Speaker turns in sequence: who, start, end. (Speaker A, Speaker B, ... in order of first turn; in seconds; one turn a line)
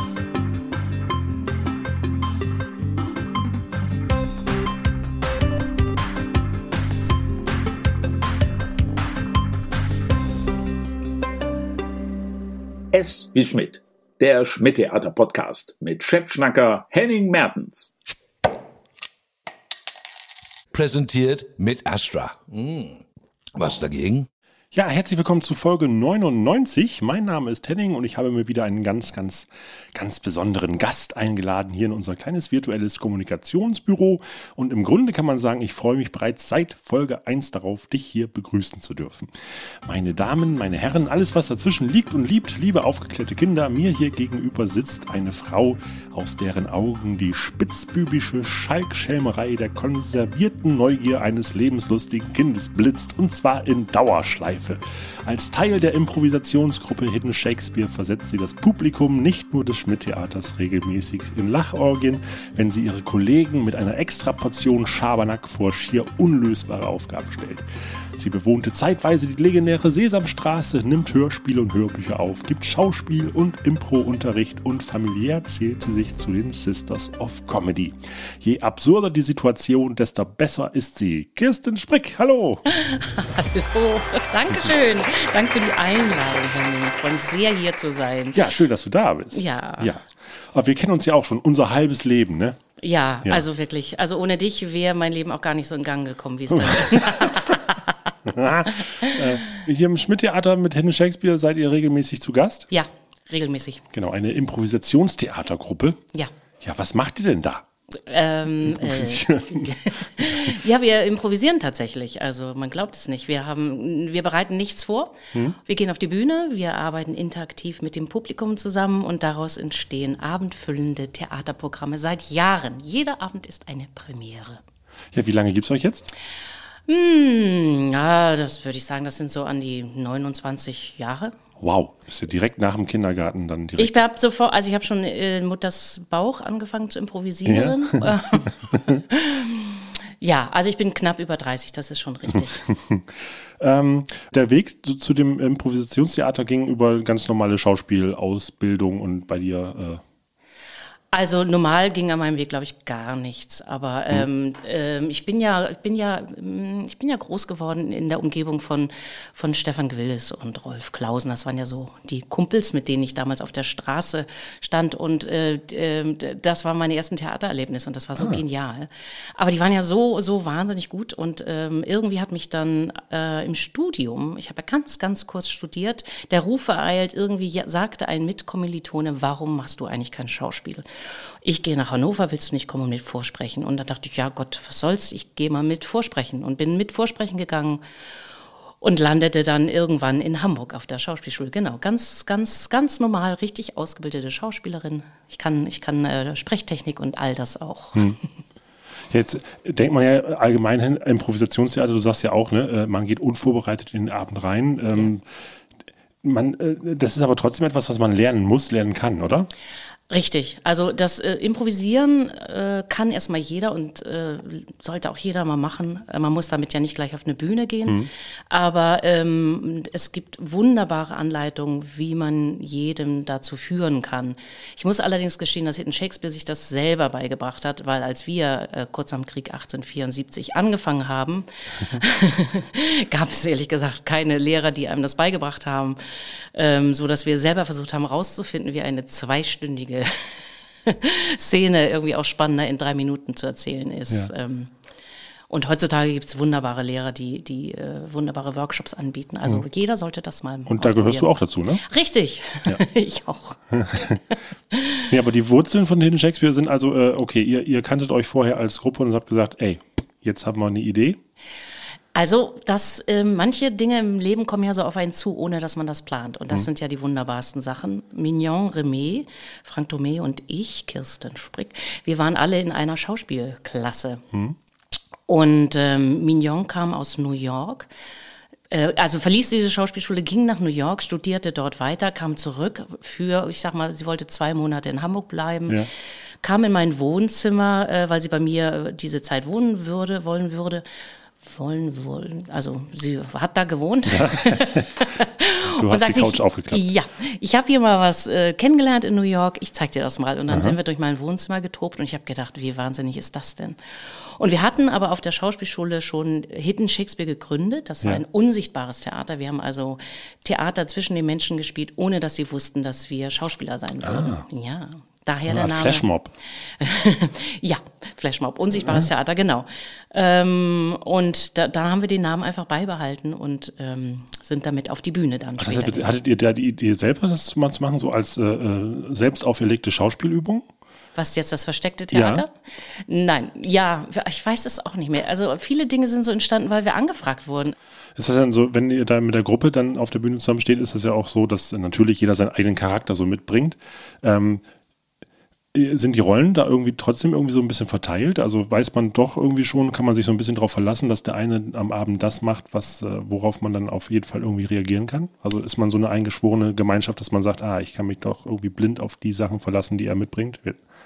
Speaker A: 12.9-17.9
Speaker B: 20.7-24.3
Speaker C: 24.7-39.3
Speaker C: 39.8-67.6
Speaker C: 68.2-82.6
Speaker D: 82.7-88.4
Speaker C: 88.3-92.6
Speaker D: 89.3-89.9
Speaker D: 92.8-97.9
Speaker C: 96.5-97.5
Speaker C: 98.2-102.7
Speaker D: 98.7-99.2
Speaker D: 102.7-103.8
Speaker C: 103.9-106.0
Speaker C: 106.6-107.6
Speaker D: 108.1-124.6
Speaker C: 108.6-110.5
Speaker C: 125.1-126.1
Speaker D: 126.9-131.3
Speaker C: 131.6-134.0
Speaker D: 133.8-142.6
Speaker C: 137.4-139.0
Speaker C: 142.6-150.0
Speaker D: 151.1-180.8
Speaker D: 181.4-187.8
Speaker D: 188.8-198.2
Speaker C: 199.1-205.2
Speaker C: 206.2-209.5
Speaker D: 210.1-236.0
Speaker D: 236.5-244.7
Speaker D: 245.5-254.2
Speaker C: 250.7-251.8
Speaker C: 253.7-254.2
Speaker D: 254.7-255.0
Speaker C: 255.1-261.2
Speaker D: 262.1-274.2
Speaker C: 274.3-274.6
Speaker D: 275.3-277.9
Speaker D: 278.7-285.8
Speaker D: 286.4-290.8
Speaker D: 291.4-316.0
Speaker C: 294.1-295.0
Speaker C: 295.7-296.8
Speaker C: 300.5-300.8
Speaker C: 314.0-314.4
Speaker C: 315.4-316.3
Speaker D: 316.8-326.1
Speaker C: 318.8-319.1
Speaker C: 325.6-330.7
Speaker D: 331.1-337.8
Speaker C: 332.1-332.4
Speaker C: 338.1-344.6
Speaker C: 345.7-360.8